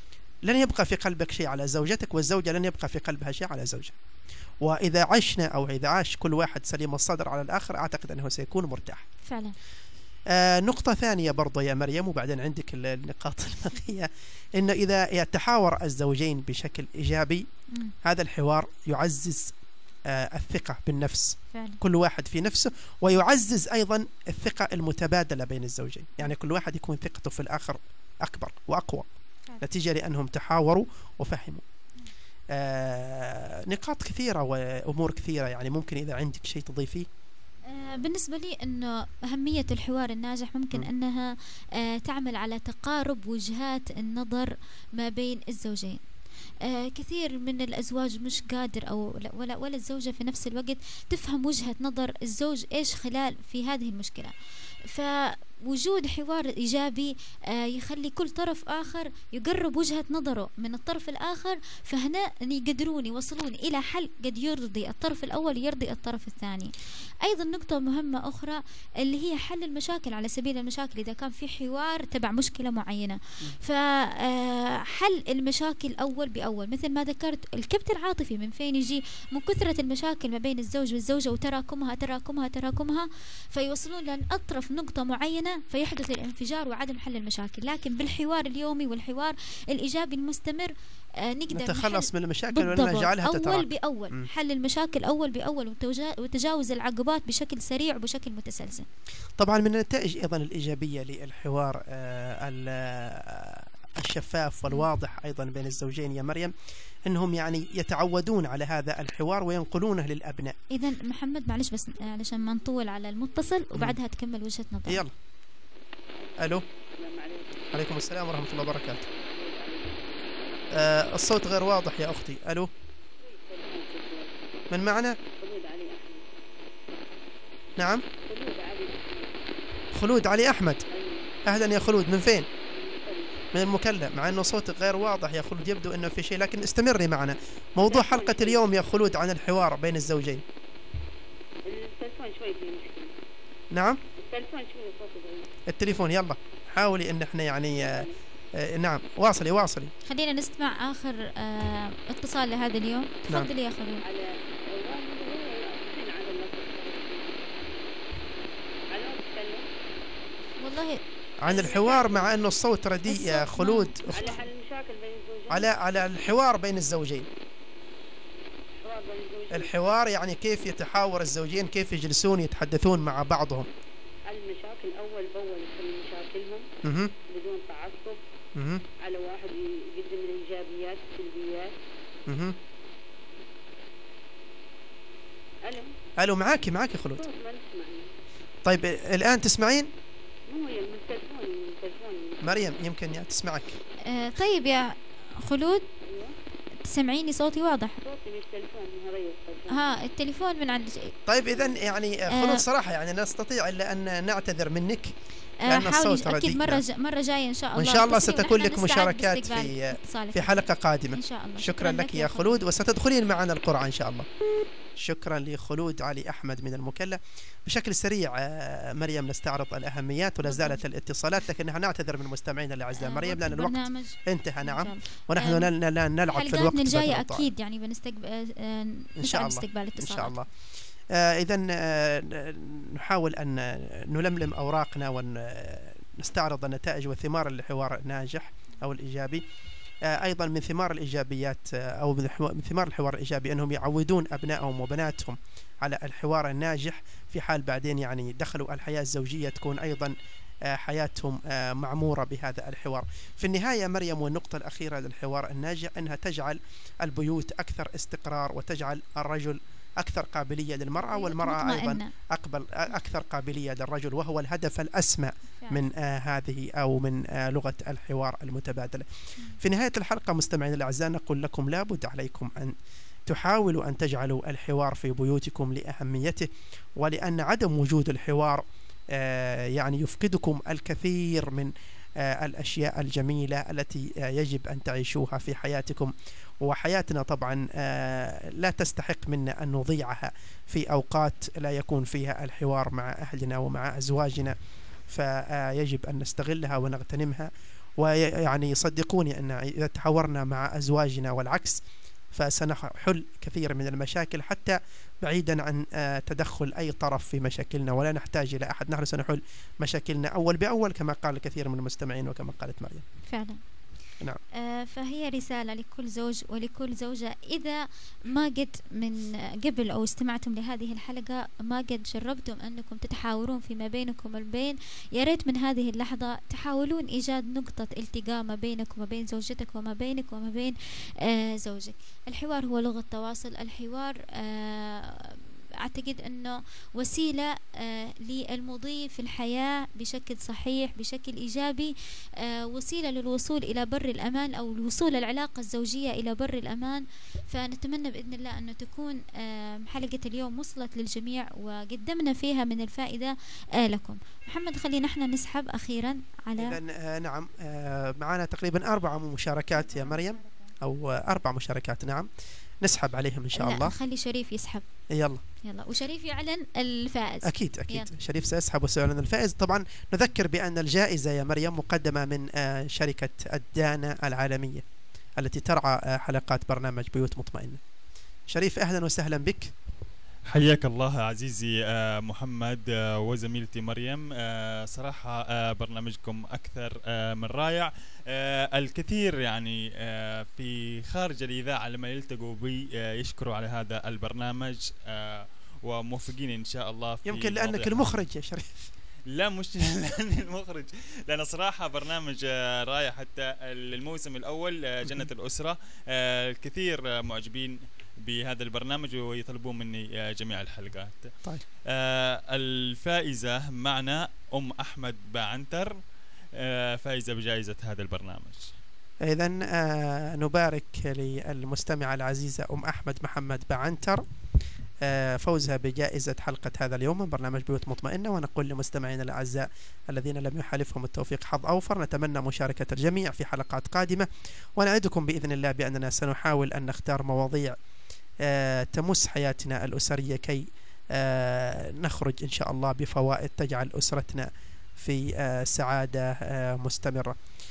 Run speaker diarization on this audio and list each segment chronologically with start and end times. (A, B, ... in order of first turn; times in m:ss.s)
0:00.4-0:04.0 A
0:04.6-0:09.0 A
0:09.3-0:09.6 B
0:10.3-0:17.5 A
0:18.0-0:19.5 A
0:20.1-0:29.1 A
0:21.5-0:21.8 B
0:29.6-0:31.6 A
0:32.5-0:37.1 A
0:37.7-0:46.0 B
0:46.6-0:54.3 B
0:54.9-1:06.7 B
1:07.2-1:38.9 B
1:31.5-1:34.3 A
1:39.4-1:46.5 A
1:47.1-1:50.6 A
1:50.7-1:55.0 B
1:54.9-1:55.2 A
1:56.4-1:56.7 A
1:57.0-1:57.8 C
1:57.7-1:59.1 A
1:58.9-2:00.4 C
2:00.7-2:02.7 A
2:03.2-2:04.4 C
2:04.7-2:05.2 A
2:05.3-2:06.3 C
2:07.8-2:08.0 A
2:07.8-2:09.4 C
2:09.9-2:10.8 A
2:10.9-2:11.3 C
2:11.4-2:12.5 A
2:12.7-2:13.4 C
2:13.5-2:20.4 A
2:17.8-2:19.0 C
2:21.7-2:23.1 C
2:23.7-2:24.0 A
2:24.2-2:25.5 C
2:25.7-2:29.9 A
2:27.8-2:28.2 C
2:30.1-2:34.0 B
2:34.0-2:37.6 C
2:38.9-2:39.7 C
2:40.6-2:42.1 B
2:41.4-2:44.4 A
2:41.5-2:42.3 C
2:43.1-2:44.4 B
2:44.1-2:46.0 C
2:45.5-2:47.3 A
2:48.8-2:49.8 C
2:49.5-2:53.7 A
2:54.3-2:56.7 C
2:56.8-2:57.1 A
2:57.3-2:58.2 C
2:58.6-2:58.8 A
2:59.0-3:01.8 C
3:02.3-3:02.6 A
3:05.6-3:05.9 C
3:06.2-3:07.2 A
3:07.2-3:08.1 C
3:08.6-3:09.9 A
3:10.5-3:12.8 C
3:12.4-3:13.8 A
3:14.1-3:15.9 B
3:16.0-3:16.3 C
3:16.8-3:18.0 B
3:18.0-3:19.9 C
3:19.7-3:21.2 B
3:21.3-3:25.2 A
3:22.3-3:22.6 B
3:25.7-3:32.6 B
3:25.7-3:26.8 A
3:27.8-3:34.3 A
3:35.0-3:47.5 A
3:40.5-3:40.8 B
3:43.0-3:45.7 B
3:46.3-3:50.4 B
3:49.2-3:50.5 A
3:51.1-3:59.4 A
4:00.0-4:10.2 A
4:10.7-4:29.1 A
4:21.1-4:22.1 B
4:29.6-4:32.8 A
4:33.3-4:54.6 A
4:55.1-5:01.8 A
5:02.3-5:13.0 A
5:13.3-5:13.6 B
5:14.6-5:56.8 B
5:56.6-6:02.3 A
6:02.8-6:04.0 A
6:03.6-6:04.8 B
6:05.1-6:05.4 A
6:05.6-6:08.1 B
6:07.4-6:14.8 A
6:15.4-6:17.8 A
6:18.5-6:19.7 A
6:20.5-6:38.2 D
6:37.3-6:38.9 A
6:39.3-6:51.4 D
6:51.9-6:56.0 D
6:56.5-6:58.7 D
6:59.2-7:04.2 A
7:05.0-7:17.8 A
7:18.4-7:27.4 A